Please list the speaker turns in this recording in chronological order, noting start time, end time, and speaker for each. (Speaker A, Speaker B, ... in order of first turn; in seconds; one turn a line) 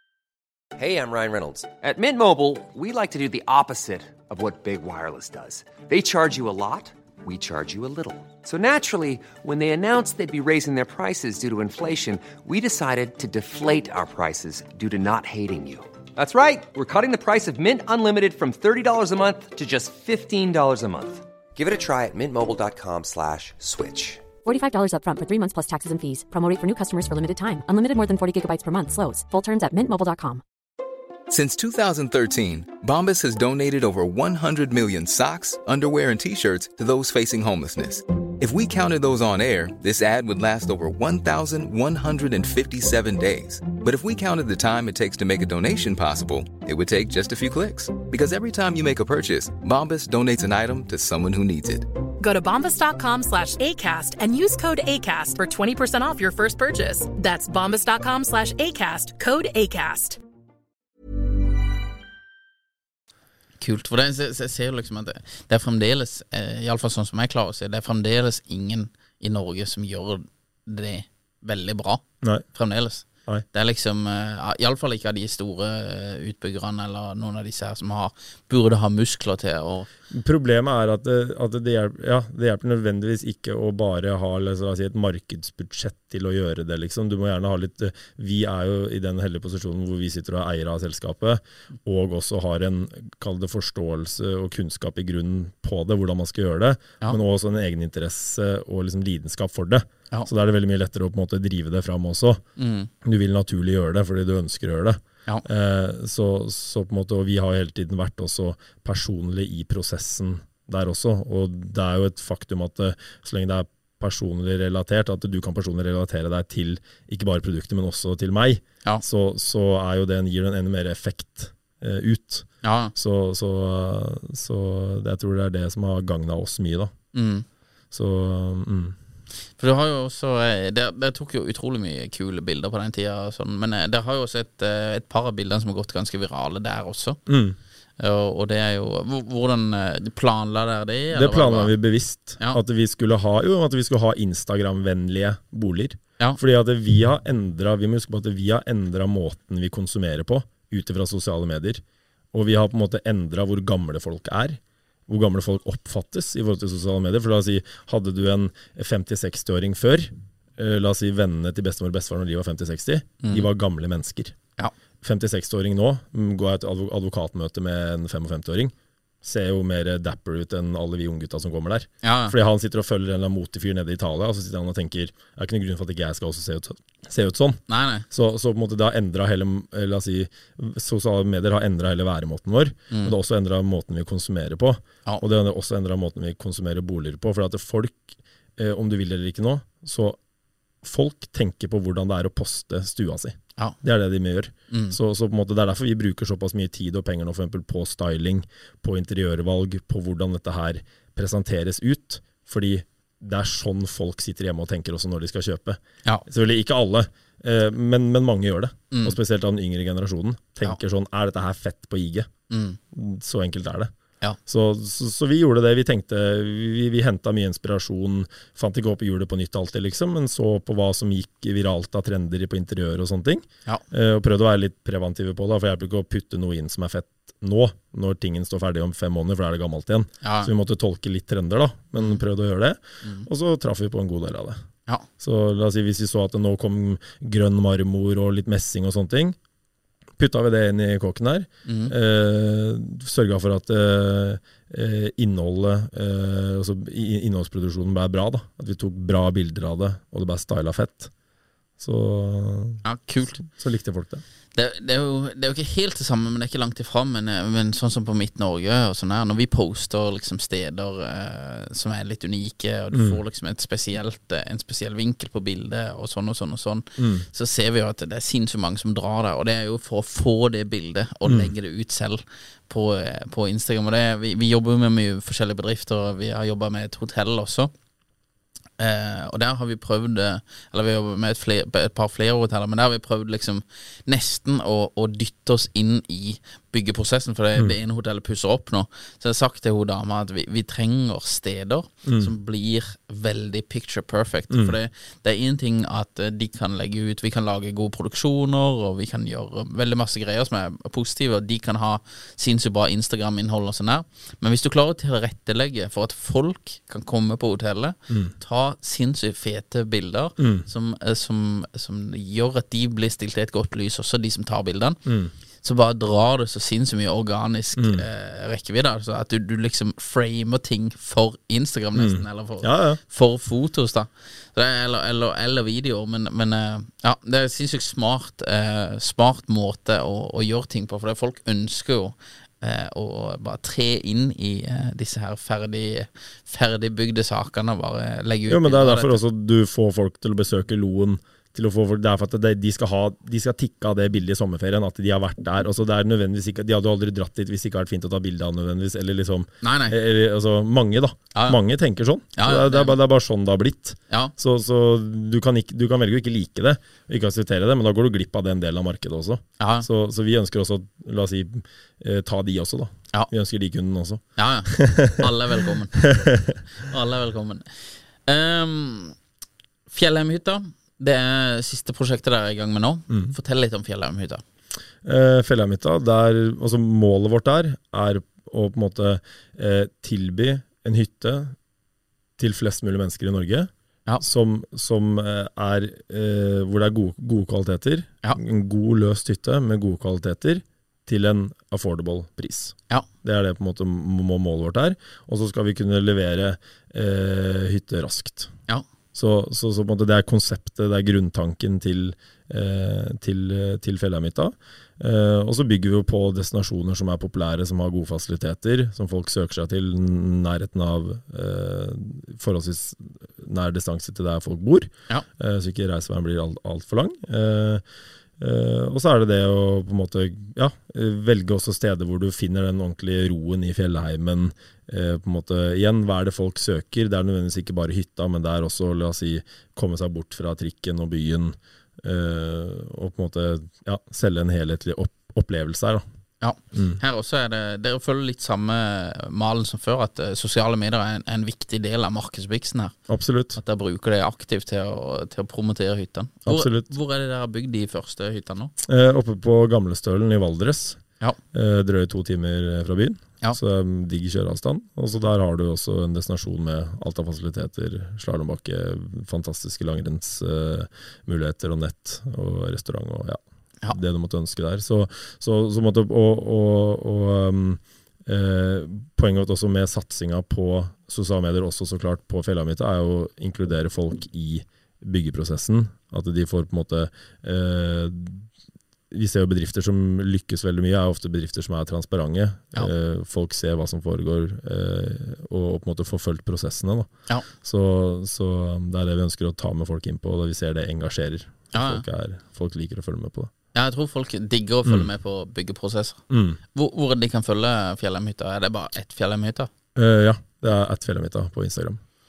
Speaker A: 0.8-24.2
Speaker B: 24.4-30.4
Speaker C: 31.3-51.9
Speaker D: 52.2-60.2
Speaker E: 63.6-79.9
Speaker F: 80.1-102.4
Speaker E: 102.6-102.9
Speaker F: 103.0-126.9
Speaker E: 122.6-122.9
Speaker E: 127.1-127.5
Speaker F: 127.9-128.9
Speaker E: 129.6-137.2
Speaker F: 137.3-137.6
Speaker E: 138.0-141.7
Speaker F: 141.1-151.8
Speaker F: 152.3-164.3
Speaker E: 163.2-163.5
Speaker F: 165.0-190.2
Speaker E: 172.0-172.3
Speaker E: 177.7-178.1
Speaker F: 190.8-212.3
Speaker E: 194.7-195.0
Speaker E: 208.9-209.2
Speaker E: 212.5-212.8
Speaker F: 212.9-213.9
Speaker F: 214.4-234.6
Speaker E: 230.2-230.5
Speaker F: 235.2-239.4
Speaker F: 240.2-251.1
Speaker E: 241.7-241.9
Speaker F: 251.8-254.2
Speaker E: 252.8-253.4
Speaker E: 254.5-277.7
Speaker F: 262.9-263.2
Speaker F: 267.0-267.2
Speaker F: 271.2-271.5
Speaker E: 278.8-315.0
Speaker F: 292.0-292.3
Speaker F: 294.5-294.8
Speaker F: 310.4-310.7
Speaker F: 315.1-315.3
Speaker E: 315.6-339.2
Speaker F: 317.8-318.0
Speaker F: 321.9-323.0
Speaker F: 338.5-366.6
Speaker E: 349.6-349.9
Speaker E: 351.3-351.6
Speaker E: 352.4-353.0
Speaker E: 359.6-359.9
Speaker E: 364.4-366.0
Speaker E: 366.8-367.6
Speaker E: 368.2-369.1
Speaker E: 369.9-374.4
Speaker F: 373.1-373.3
Speaker F: 375.0-381.5
Speaker F: 382.4-398.5
Speaker F: 399.1-417.8
Speaker F: 418.4-436.0
Speaker E: 436.4-442.9
Speaker F: 436.7-437.0
Speaker F: 443.1-443.6
Speaker E: 443.5-448.7
Speaker F: 446.4-446.9
Speaker F: 448.8-451.0
Speaker F: 451.5-478.5
Speaker F: 479.1-493.5
Speaker E: 491.7-492.0
Speaker E: 493.7-496.2
Speaker F: 496.3-496.6
Speaker E: 496.7-499.7
Speaker F: 499.9-502.0